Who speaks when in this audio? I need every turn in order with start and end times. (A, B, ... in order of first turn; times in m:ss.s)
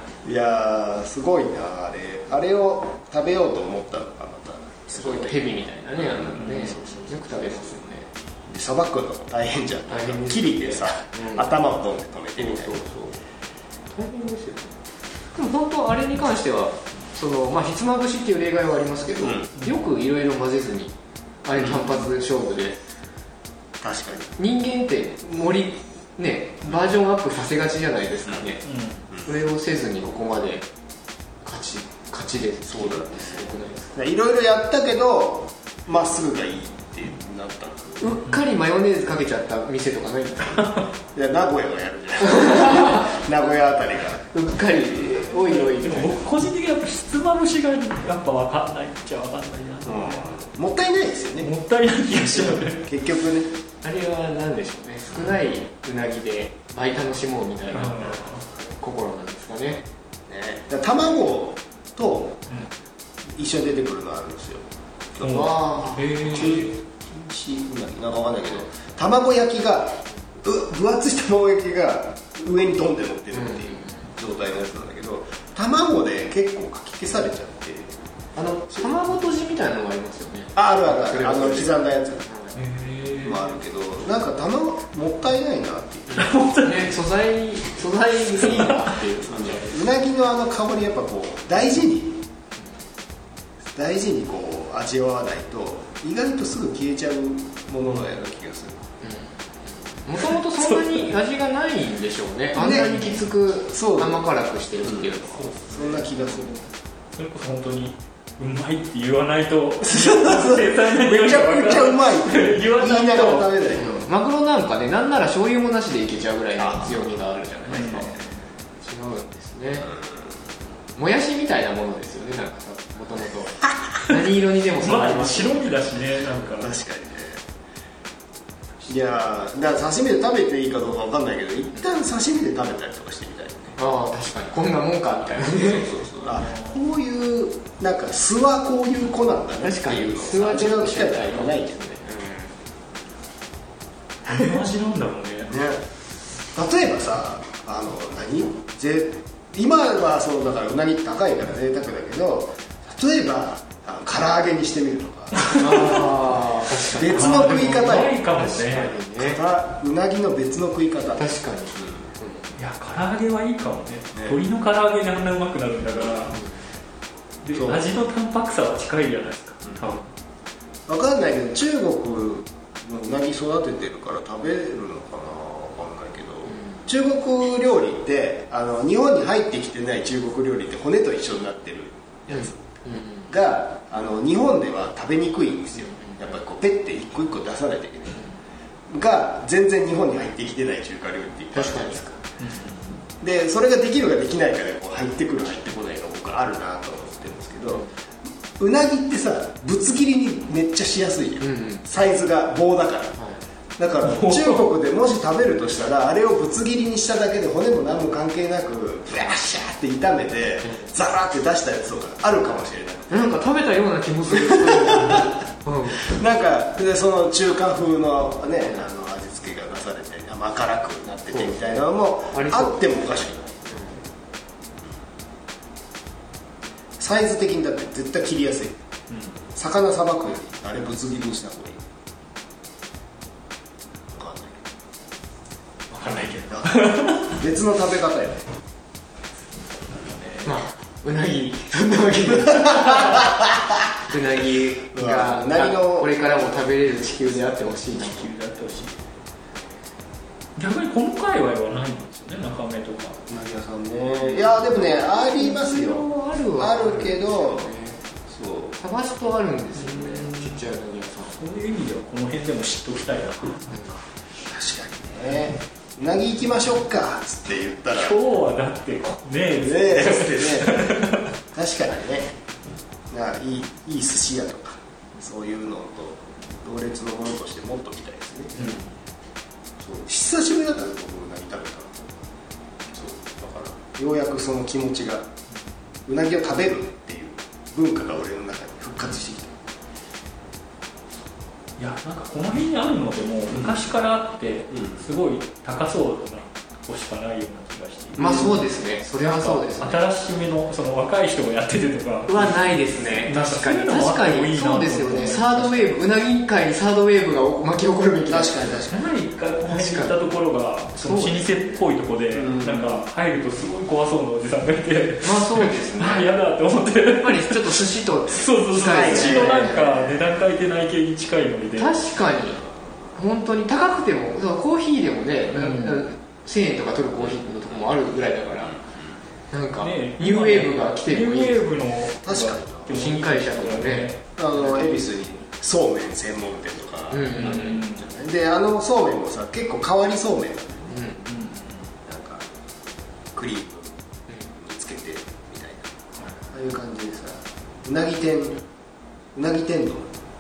0:00.2-0:07.5 A
0:04.9-0:08.1 B
0:06.4-0:06.8 C
0:08.5-0:12.8 A
0:09.9-0:11.5 B
0:12.4-0:13.2 B
0:13.9-0:14.8 B
0:15.3-0:22.8 B
0:19.2-0:19.5 A
0:21.6-0:21.9 A
0:23.8-0:24.4 A
0:24.4-0:28.6 B
0:28.6-0:29.0 C
0:29.2-0:30.7 B
0:31.4-0:34.0 B
0:32.7-0:38.1 A
0:38.0-0:40.8 B
0:41.1-0:44.3 A
0:42.2-0:43.1 B
0:44.3-0:46.2 B
0:45.4-0:50.3 C
0:49.8-0:51.5 A
0:51.4-0:52.9 C
0:52.1-0:53.6 A
0:53.8-0:58.2 B
0:57.7-0:58.4 C
0:58.8-0:59.8 B
1:00.3-1:02.5 A
1:03.3-1:18.0 A
1:05.2-1:06.7 C
1:05.3-1:06.5 B
1:13.3-1:14.0 B
1:18.4-1:21.8 B
1:20.6-1:22.3 A
1:22.3-1:22.5 B
1:22.6-1:23.5 C
1:23.2-1:26.4 A
1:26.1-1:29.8 B
1:26.1-1:27.0 C
1:29.3-1:32.3 A
1:33.7-1:38.8 A
1:39.0-1:45.5 B
1:40.6-1:41.0 C
1:42.6-1:44.2 A
1:44.8-1:45.1 A
1:45.3-1:46.4 C
1:45.7-1:46.7 A
1:47.2-1:53.5 C
1:49.8-1:54.1 A
1:53.8-1:58.1 B
1:56.6-1:56.9 A
1:57.7-1:58.2 C
1:58.8-1:59.9 B
1:59.9-2:00.4 A
2:01.0-2:06.5 B
2:04.8-2:06.8 C
2:06.6-2:07.4 A
2:08.9-2:13.8 A
2:13.8-2:16.1 B
2:15.6-2:21.8 A
2:16.4-2:16.8 C
2:19.6-2:22.5 B
2:24.3-2:25.6 C
2:25.5-2:25.8 A
2:26.5-2:36.1 A
2:35.4-2:35.9 C
2:35.5-2:39.4 B
2:36.9-2:38.2 A
2:37.0-2:38.9 C
2:39.2-2:42.1 A
2:41.2-2:42.6 B
2:42.6-2:46.4 C
2:47.4-2:50.1 C
2:47.5-2:47.8 A
2:50.9-3:08.2 A
3:02.3-3:03.3 B
3:05.9-3:06.2 B
3:08.9-3:12.1 A
3:11.5-3:12.2 B
3:12.4-3:13.0 C
3:13.2-3:17.8 A
3:18.6-3:23.2 A
3:21.4-3:21.8 B
3:23.8-3:33.4 A
3:24.0-3:24.7 C
3:33.1-3:36.1 B
3:34.3-3:35.3 A
3:36.0-3:43.9 A
3:41.3-3:41.8 B
3:42.3-3:42.8 B
3:43.7-3:44.0 B
3:47.0-3:48.8 A
3:49.1-3:49.4 C
3:49.6-3:51.8 A
3:54.1-3:54.7 A
3:55.9-3:57.4 C
3:56.5-3:58.4 A
3:59.9-4:00.5 C
4:00.4-4:03.3 B
4:03.2-4:03.4 A
4:04.1-4:08.3 B
4:04.9-4:06.1 A
4:07.9-4:09.0 C
4:10.6-4:13.2 C
4:13.3-4:16.0 A
4:14.2-4:18.0 B
4:16.6-4:17.7 A
4:18.3-4:18.8 A
4:18.8-4:21.4 B
4:19.8-4:20.6 C
4:21.4-4:23.7 C
4:23.7-4:24.0 B
4:24.5-4:28.2 A
4:27.9-4:31.3 C
4:29.6-4:32.4 A
4:33.1-4:38.8 A
4:38.6-4:38.9 C
4:39.8-4:42.3 A
4:42.9-4:45.3 A
4:46.1-4:49.7 A
4:51.8-4:58.5 C
4:53.5-4:53.8 A
4:58.2-5:00.0 B
4:58.2-4:58.6 A
4:59.2-5:05.9 C
5:02.3-5:08.8 B
5:08.3-5:09.1 A
5:08.9-5:21.9 C
5:09.7-5:10.2 B
5:11.0-5:11.8 B
5:12.3-5:13.0 A
5:15.2-5:16.3 B
5:17.1-5:20.1 B
5:18.9-5:20.2 A
5:21.8-5:22.6 B
5:23.2-5:28.8 B
5:25.5-5:26.0 C
5:29.5-5:31.7 B
5:29.8-5:35.0 C
5:32.2-5:32.9 A
5:32.9-5:34.7 B
5:34.4-5:41.0 A
5:37.1-5:37.8 B
5:37.3-5:38.1 C
5:40.9-5:41.3 B
5:41.3-5:41.8 C
5:42.0-5:42.5 A
5:43.3-5:44.0 A
5:44.5-5:45.9 A
5:46.5-5:48.6 A
5:49.4-5:50.2 A